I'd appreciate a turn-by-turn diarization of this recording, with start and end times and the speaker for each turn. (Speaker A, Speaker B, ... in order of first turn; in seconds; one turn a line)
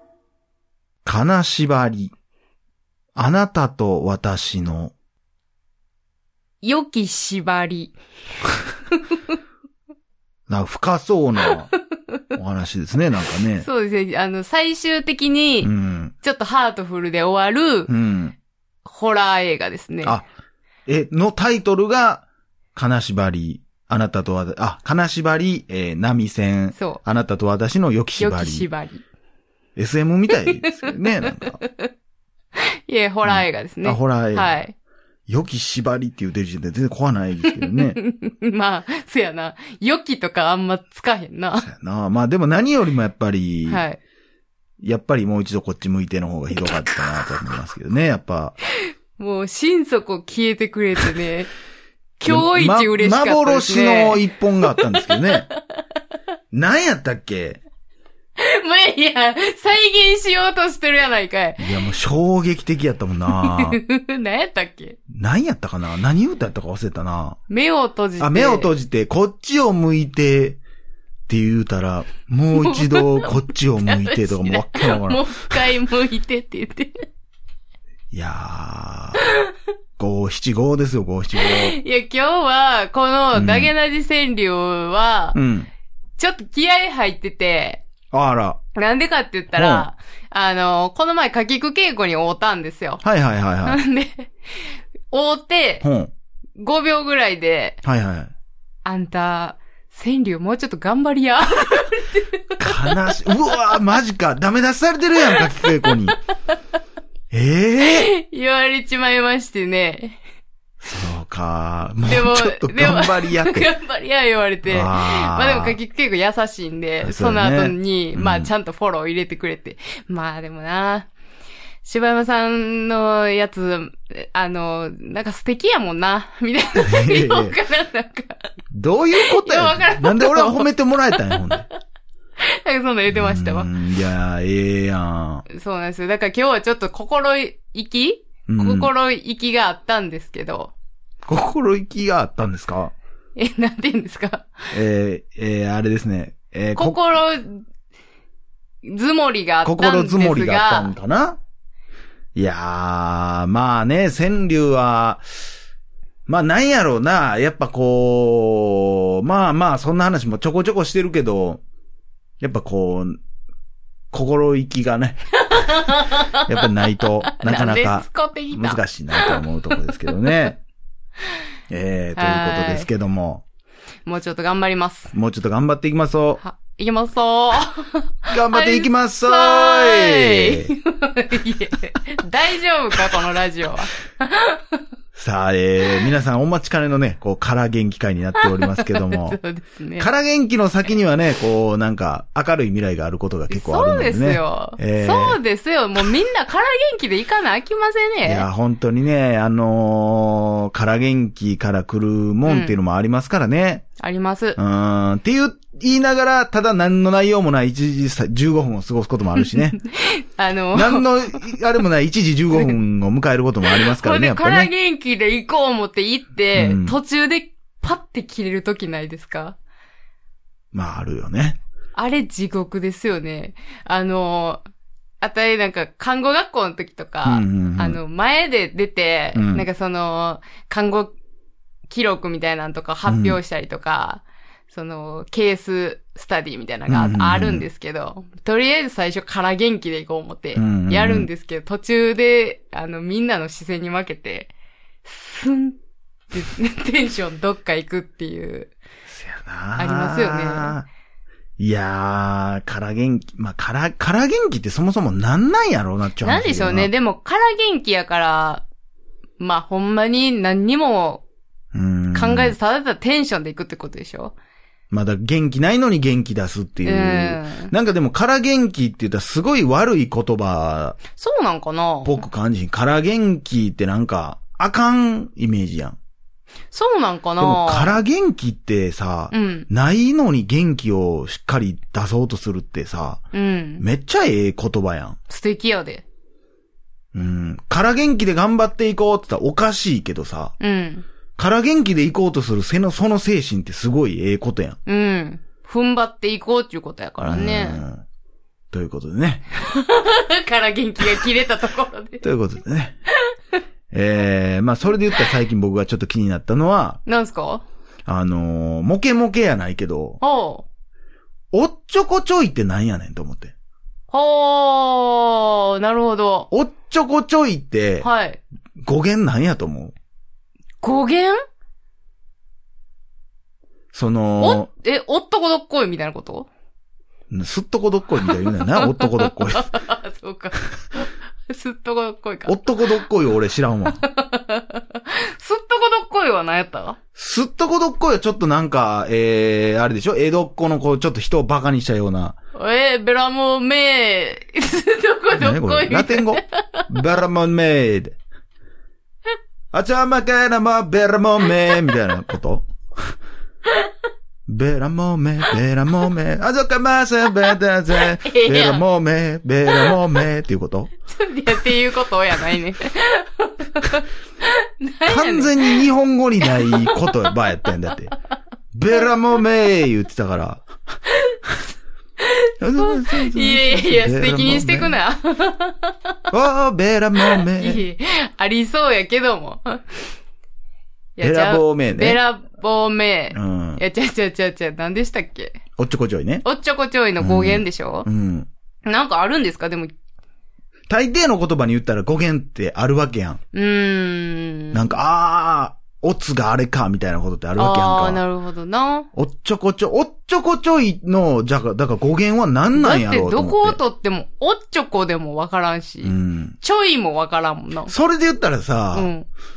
Speaker A: 1.1-2.1
Speaker A: 3.1-4.9
Speaker B: 6.6-7.9
Speaker B: 9.1-9.4
Speaker A: 10.5-11.7
Speaker A: 12.3-13.7
Speaker B: 13.6-15.7
Speaker A: 15.6-16.1
Speaker B: 16.2-17.9
Speaker A: 17.9-18.4
Speaker B: 18.9-20.2
Speaker A: 20.9-28.7
Speaker B: 26.7-27.0
Speaker B: 28.2-29.0
Speaker A: 29.8-31.6
Speaker B: 30.4-31.9
Speaker B: 32.6-34.7
Speaker A: 33.2-34.6
Speaker A: 35.3-38.0
Speaker B: 37.5-41.7
Speaker A: 41.6-43.8
Speaker B: 43.7-44.0
Speaker A: 44.8-48.6
Speaker B: 46.6-47.3
Speaker B: 49.2-51.5
Speaker B: 52.2-54.2
Speaker A: 52.2-55.5
Speaker B: 54.7-55.8
Speaker A: 56.5-57.6
Speaker B: 58.4-61.7
Speaker A: 61.6-63.8
Speaker B: 63.4-65.0
Speaker A: 65.1-67.4
Speaker B: 67.5-68.7
Speaker A: 68.2-70.6
Speaker A: 71.3-75.7
Speaker B: 72.6-77.0
Speaker A: 78.1-79.2
Speaker A: 80.0-81.8
Speaker B: 81.4-85.4
Speaker A: 83.3-83.7
Speaker A: 85.3-85.7
Speaker B: 86.2-87.8
Speaker A: 88.1-88.6
Speaker B: 88.8-93.0
Speaker A: 89.6-89.9
Speaker A: 93.0-93.8
Speaker B: 93.7-95.8
Speaker A: 95.8-96.1
Speaker B: 96.6-97.8
Speaker A: 97.8-98.3
Speaker B: 98.8-103.3
Speaker A: 102.6-106.2
Speaker B: 105.3-106.0
Speaker A: 107.3-108.1
Speaker B: 107.8-110.2
Speaker A: 110.8-113.7
Speaker B: 112.1-121.1
Speaker A: 114.7-115.8
Speaker A: 117.0-118.5
Speaker B: 121.8-128.5
Speaker A: 126.8-127.6
Speaker A: 128.7-131.7
Speaker B: 129.2-131.5
Speaker B: 132.4-133.7
Speaker A: 133.1-135.4
Speaker B: 135.5-140.7
Speaker A: 138.5-138.9
Speaker A: 141.3-142.9
Speaker B: 143.4-144.7
Speaker A: 144.7-147.0
Speaker B: 146.8-147.6
Speaker B: 148.8-150.9
Speaker A: 149.6-151.4
Speaker A: 152.3-155.2
Speaker A: 156.3-161.6
Speaker A: 162.4-163.2
Speaker A: 164.1-165.3
Speaker B: 165.4-170.5
Speaker A: 166.5-170.6
Speaker A: 171.7-173.4
Speaker B: 172.2-172.9
Speaker B: 174.1-175.1
Speaker A: 175.1-176.4
Speaker B: 176.4-184.8
Speaker A: 178.3-180.7
Speaker A: 185.2-189.4
Speaker B: 188.4-190.1
Speaker A: 190.0-195.4
Speaker B: 193.5-198.5
Speaker A: 198.2-203.9
Speaker B: 202.5-202.8
Speaker B: 204.0-204.6
Speaker A: 204.6-209.8
Speaker B: 209.4-211.1
Speaker A: 210.7-214.7
Speaker B: 213.7-219.6
Speaker A: 216.5-217.0
Speaker A: 220.7-221.6
Speaker B: 221.9-224.6
Speaker B: 225.2-231.1
Speaker A: 227.2-228.0
Speaker A: 229.3-229.7
Speaker B: 231.9-244.5
Speaker A: 233.1-233.4
Speaker A: 236.9-237.7
Speaker A: 240.6-241.3
Speaker B: 245.0-245.8
Speaker B: 246.3-248.7
Speaker A: 249.1-250.9
Speaker B: 249.8-250.8
Speaker A: 251.6-256.9
Speaker B: 256.2-258.6
Speaker B: 259.4-261.2
Speaker A: 261.7-262.6
Speaker B: 262.1-264.3
Speaker A: 264.9-271.0
Speaker B: 266.9-267.7
Speaker B: 271.1-272.2
Speaker A: 272.1-276.0
Speaker B: 276.7-278.0
Speaker A: 277.4-283.2
Speaker B: 279.3-279.7
Speaker B: 283.3-283.8
Speaker A: 283.8-285.2
Speaker B: 285.3-286.1
Speaker A: 287.1-290.5
Speaker B: 290.6-291.1
Speaker A: 291.4-294.8
Speaker B: 294.9-297.8
Speaker A: 297.2-298.1
Speaker A: 298.7-299.5
Speaker B: 299.6-302.2
Speaker A: 302.2-303.0
Speaker B: 303.2-303.6
Speaker A: 303.9-307.0
Speaker B: 307.1-307.6
Speaker A: 308.1-310.2
Speaker B: 310.2-310.6
Speaker A: 311.5-313.5
Speaker B: 314.1-316.5
Speaker A: 316.5-318.1
Speaker B: 318.0-318.4
Speaker A: 318.8-319.9
Speaker B: 320.8-321.4
Speaker A: 323.9-324.7
Speaker B: 324.4-326.5
Speaker A: 327.3-329.7
Speaker B: 328.3-332.9
Speaker A: 332.5-334.0
Speaker B: 333.9-337.0
Speaker A: 337.2-342.4
Speaker B: 342.5-346.9
Speaker A: 345.4-348.2
Speaker A: 349.7-352.7
Speaker A: 354.5-360.9
Speaker B: 357.4-358.8
Speaker B: 359.7-360.0
Speaker B: 361.1-365.9
Speaker A: 365.1-368.1
Speaker B: 366.4-367.3
Speaker A: 368.7-370.7
Speaker B: 371.1-371.4
Speaker B: 372.2-376.2
Speaker A: 372.6-375.0
Speaker A: 376.3-377.8
Speaker B: 377.2-380.1
Speaker B: 381.2-385.5
Speaker A: 381.2-382.2
Speaker A: 383.3-383.8
Speaker A: 385.8-386.4
Speaker B: 386.4-388.1
Speaker A: 387.2-388.5
Speaker B: 388.9-389.9
Speaker A: 390.9-393.4
Speaker B: 393.5-395.0
Speaker A: 394.7-398.2
Speaker B: 397.6-399.1
Speaker A: 399.2-403.8
Speaker B: 402.8-407.9
Speaker A: 406.0-406.6
Speaker A: 407.9-409.1
Speaker B: 408.9-409.3